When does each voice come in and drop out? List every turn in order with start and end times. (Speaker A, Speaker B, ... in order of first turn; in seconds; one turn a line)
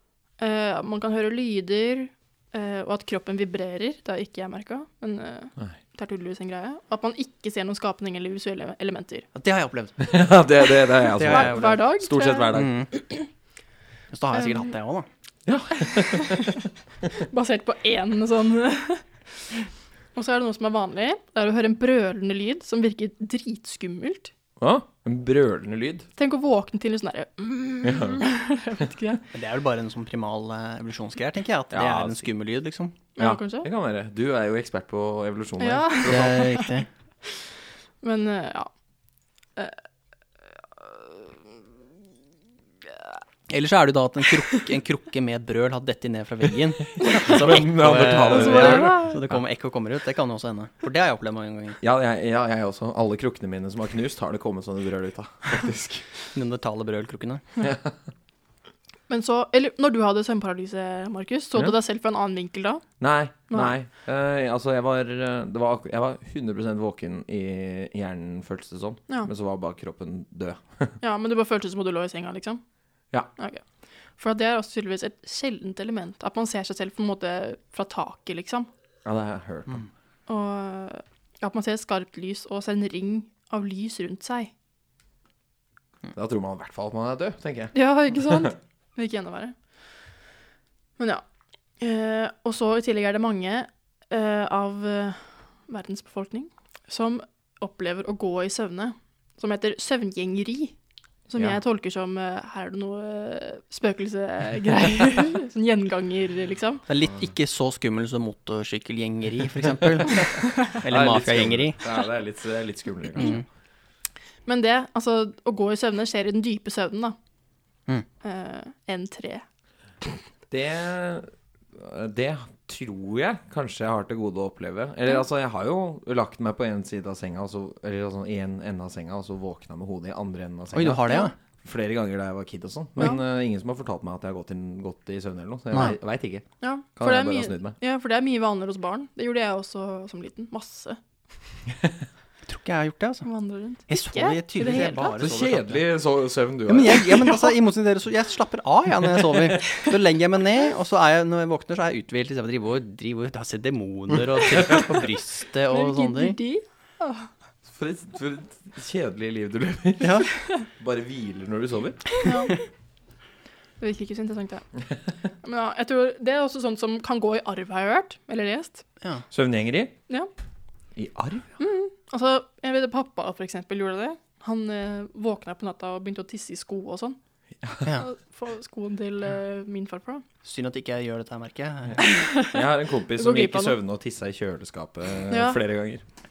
Speaker A: 0.4-9.3
Speaker B: 9.3-10.1
Speaker C: 10.0-12.8
Speaker B: 11.1-11.8
Speaker A: 11.2-13.3
Speaker B: 12.5-12.9
Speaker B: 14.1-15.1
Speaker A: 14.3-14.7
Speaker C: 15.4-16.6
Speaker A: 16.0-16.6
Speaker A: 17.1-19.5
Speaker A: 20.1-24.3
Speaker C: 24.6-26.1
Speaker A: 26.2-29.2
Speaker C: 27.8-28.2
Speaker B: 29.3-33.0
Speaker C: 31.7-32.3
Speaker A: 33.1-33.7
Speaker C: 33.2-36.5
Speaker A: 35.6-36.7
Speaker B: 36.0-36.9
Speaker A: 38.0-38.7
Speaker A: 40.8-41.2
Speaker B: 43.5-51.8
Speaker A: 47.0-47.3
Speaker C: 47.2-49.4
Speaker A: 48.3-49.2
Speaker C: 51.8-56.1
Speaker B: 56.3-57.4
Speaker C: 57.6-57.9
Speaker A: 59.1-62.8
Speaker C: 63.0-71.0
Speaker A: 71.0-72.6
Speaker A: 73.4-73.6
Speaker A: 74.2-78.7
Speaker C: 79.0-79.9
Speaker A: 80.3-84.5
Speaker C: 86.1-88.5
Speaker A: 87.7-89.5
Speaker A: 91.8-100.8
Speaker A: 101.3-106.8
Speaker B: 106.9-111.8
Speaker C: 110.6-113.4
Speaker B: 113.2-113.4
Speaker A: 114.5-117.2
Speaker A: 118.2-119.4
Speaker C: 120.5-136.4
Speaker B: 130.7-131.3
Speaker A: 136.6-141.0
Speaker C: 137.0-137.8
Speaker B: 142.4-143.3
Speaker A: 143.2-145.2
Speaker B: 143.9-145.8
Speaker C: 144.8-147.2
Speaker B: 146.7-156.4
Speaker A: 155.7-157.3
Speaker C: 157.7-162.2
Speaker B: 160.0-160.3
Speaker A: 162.2-162.6
Speaker A: 163.8-164.7
Speaker A: 165.4-168.8
Speaker C: 169.3-169.9
Speaker C: 170.9-171.5
Speaker A: 171.6-177.2
Speaker A: 178.0-180.2
Speaker B: 180.4-182.0
Speaker A: 182.0-182.6
Speaker C: 182.5-186.0
Speaker A: 183.2-183.8
Speaker A: 185.3-185.6